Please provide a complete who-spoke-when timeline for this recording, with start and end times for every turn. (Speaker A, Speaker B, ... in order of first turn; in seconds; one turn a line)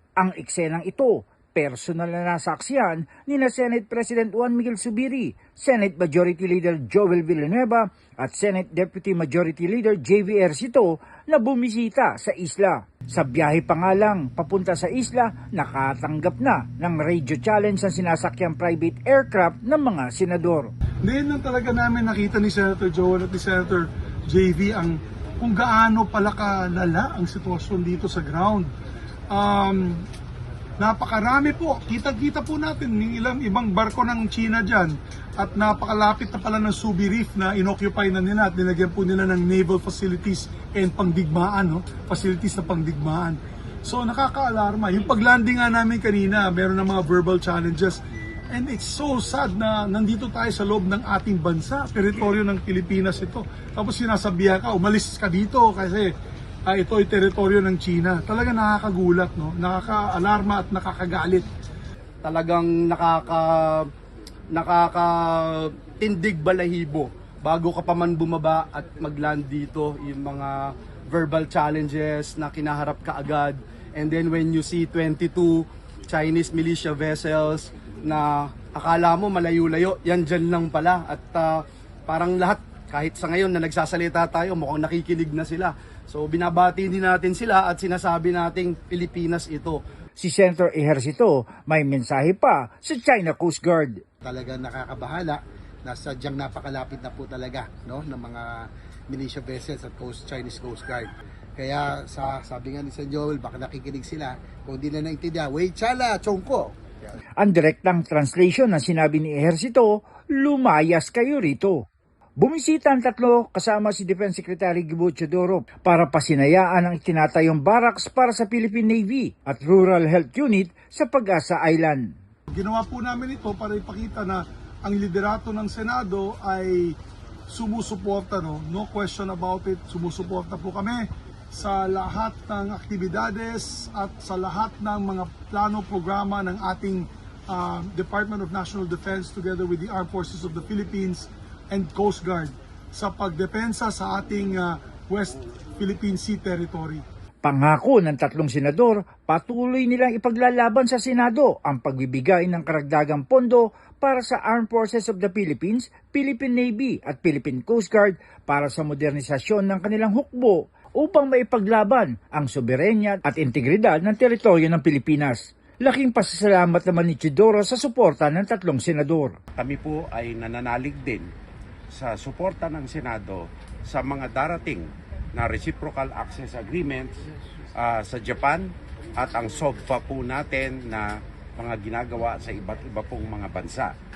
Speaker A: 0.2-20.7
Speaker B: 21.0-28.7
Speaker B: 29.3-30.0
Speaker B: 30.8-56.1
Speaker B: 56.7-61.5
Speaker C: 62.2-63.9
Speaker C: 64.5-89.8
Speaker A: 90.2-94.0
Speaker D: 94.2-98.5
Speaker D: 99.1-106.7
Speaker A: 107.4-111.8
Speaker A: 112.4-122.1
Speaker B: 122.5-127.0
Speaker B: 127.5-147.0
Speaker A: 147.4-169.4
Speaker E: 169.6-171.3
Speaker E: 171.9-177.2
Speaker E: 177.8-183.9